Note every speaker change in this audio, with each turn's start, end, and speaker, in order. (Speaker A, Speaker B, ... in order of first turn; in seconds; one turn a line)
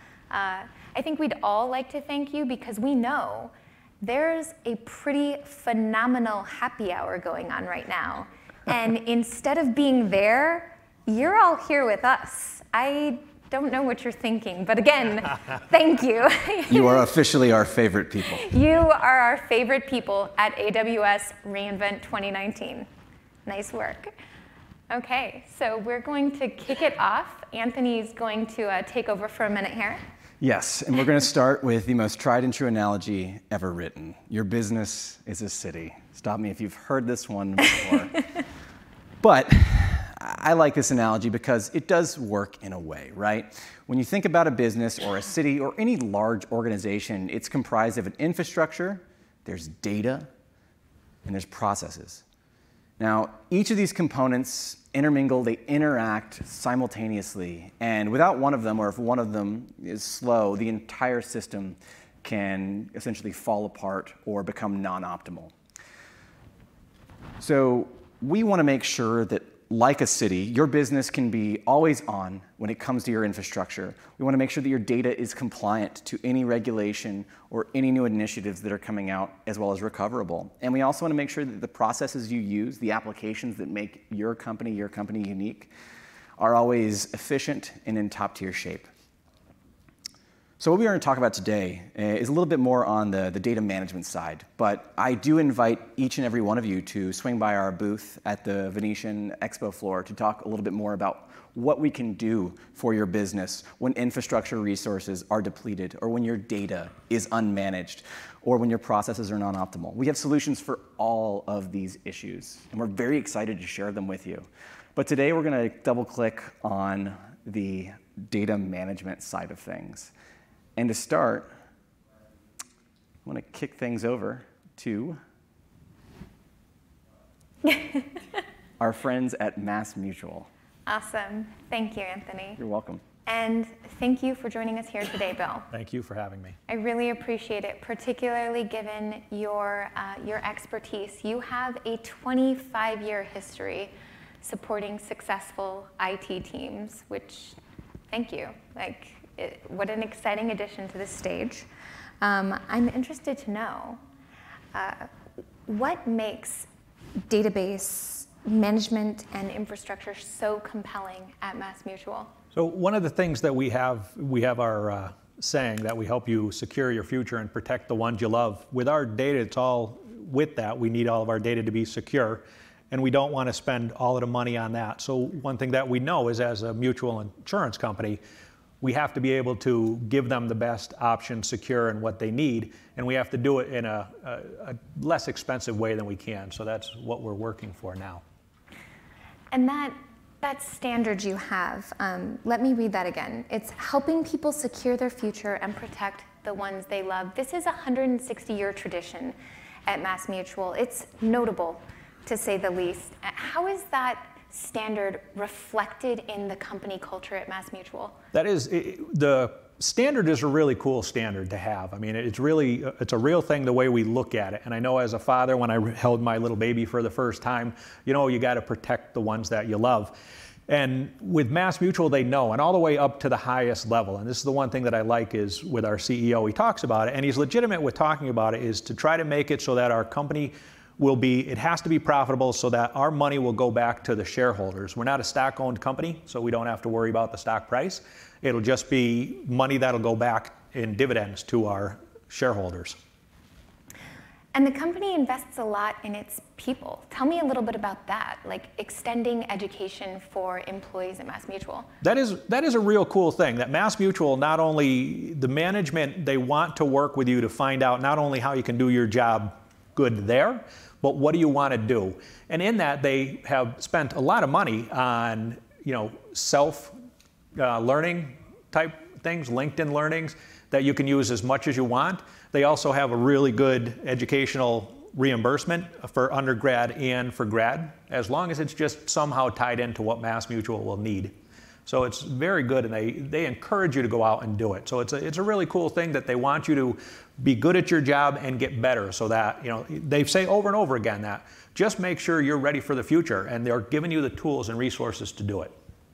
Speaker A: 0.3-17.1
Speaker B: 16.7-18.5
Speaker A: 18.4-22.9
Speaker A: 23.4-24.1
Speaker A: 24.9-30.0
Speaker B: 30.4-38.2
Speaker B: 39.2-50.3
Speaker B: 51.2-52.2
Speaker B: 53.0-65.5
Speaker B: 67.4-85.7
Speaker B: 86.4-88.9
Speaker B: 90.6-120.1
Speaker B: 120.8-121.5
Speaker B: 123.2-125.2
Speaker A: 127.7-128.2
Speaker B: 128.8-130.5
Speaker A: 130.8-132.6
Speaker B: 132.6-133.0
Speaker A: 133.2-135.7
Speaker C: 135.7-136.6
Speaker A: 136.7-147.6
Speaker A: 148.1-151.7
Speaker A: 152.2-154.0
Speaker A: 154.7-155.1
Speaker A: 155.7-156.7
Speaker A: 157.3-162.3
Speaker C: 162.5-178.2
Speaker C: 178.8-188.2
Speaker A: 189.5-208.2
Speaker C: 208.3-220.1
Speaker C: 220.7-243.0
Speaker A: 244.5-251.9
Speaker C: 252.0-266.9
Speaker C: 267.6-281.3
Speaker C: 281.9-295.7